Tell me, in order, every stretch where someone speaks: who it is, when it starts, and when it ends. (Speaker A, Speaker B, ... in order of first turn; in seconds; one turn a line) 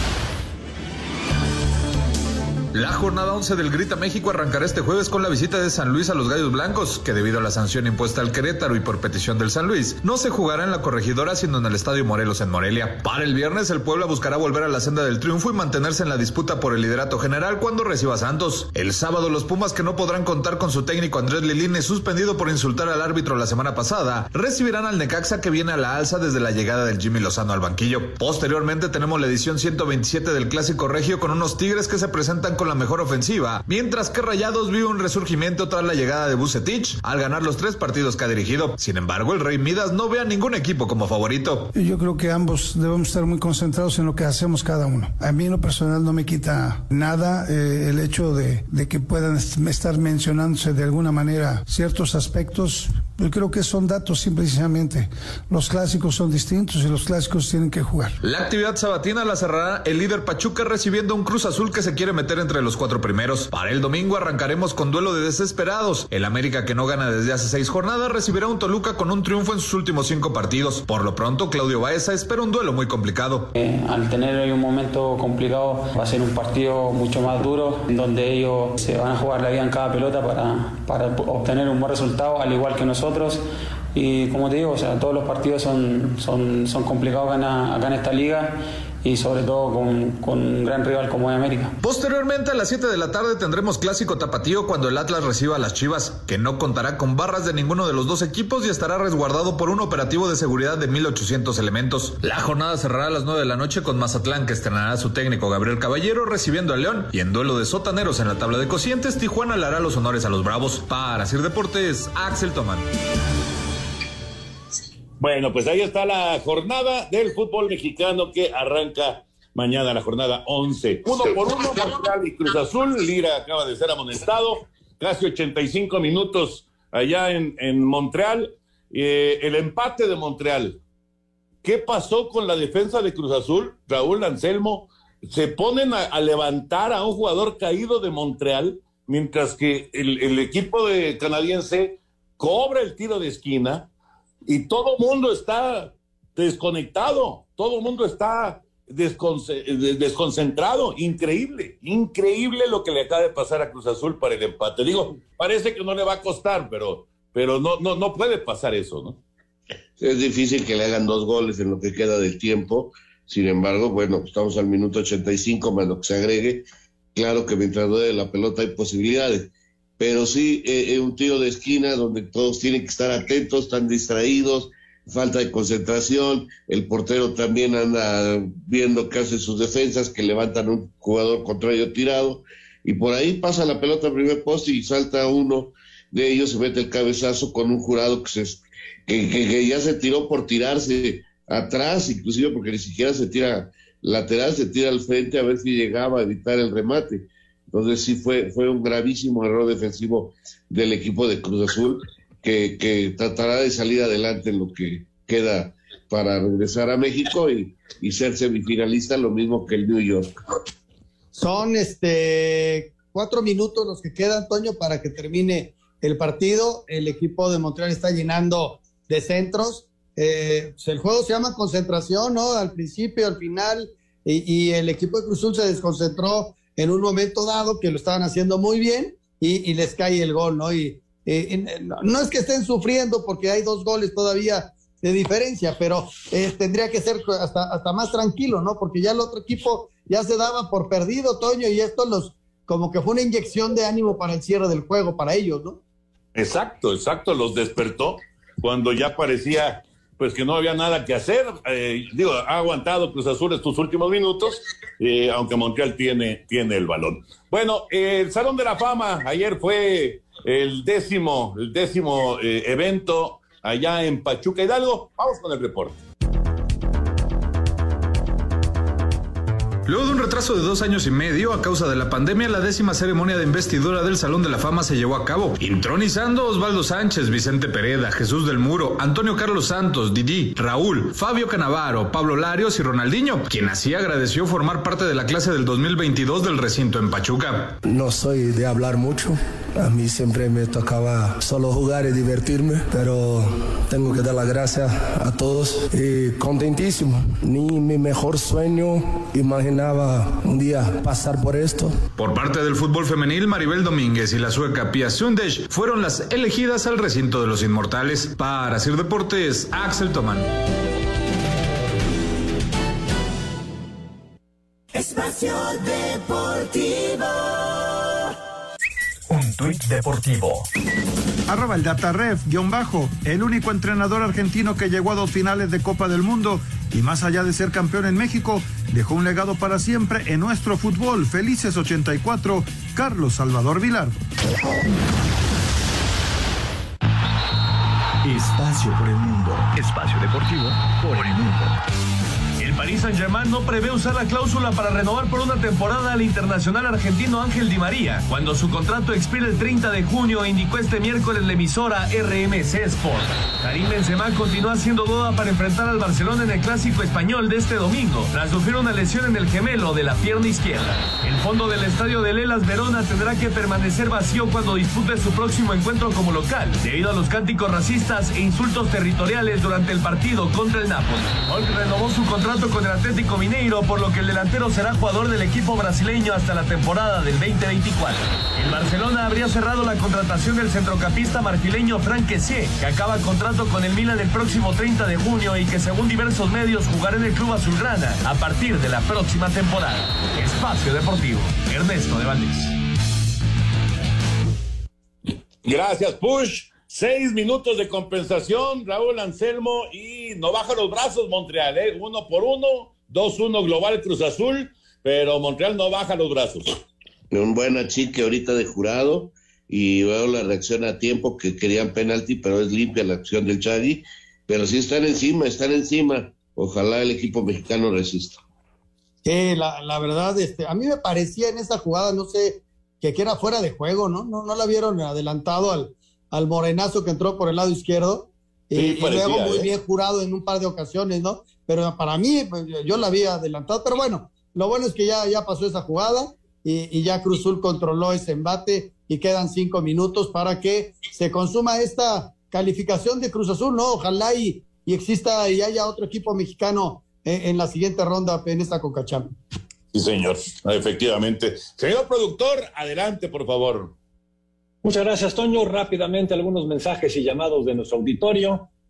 Speaker A: 2.7-41.7
Speaker B: 41.7-58.1
Speaker A: 58.2-73.5
Speaker C: 73.5-83.4
Speaker C: 83.9-91.7
Speaker A: 91.8-112.8
Speaker D: 115.2-130.8
Speaker D: 131.6-143.8
Speaker D: 144.4-159.2
Speaker E: 160.0-166.6
Speaker E: 167.1-169.5
Speaker E: 170.0-210.3
Speaker F: 211.3-245.8
Speaker D: 246.3-266.0
Speaker A: 269.9-287.8
Speaker G: 287.8-302.0
Speaker A: 302.1-310.5
Speaker H: 314.9-317.2
Speaker H: 319.3-320.7
Speaker I: 321.5-334.1
Speaker H: 338.2-341.7
Speaker J: 342.6-392.7
Speaker D: 395.6-406.7
Speaker E: 407.3-418.4
Speaker F: 419.2-449.3
Speaker D: 428.7-429.7
Speaker D: 449.9-453.9
Speaker K: 454.8-458.6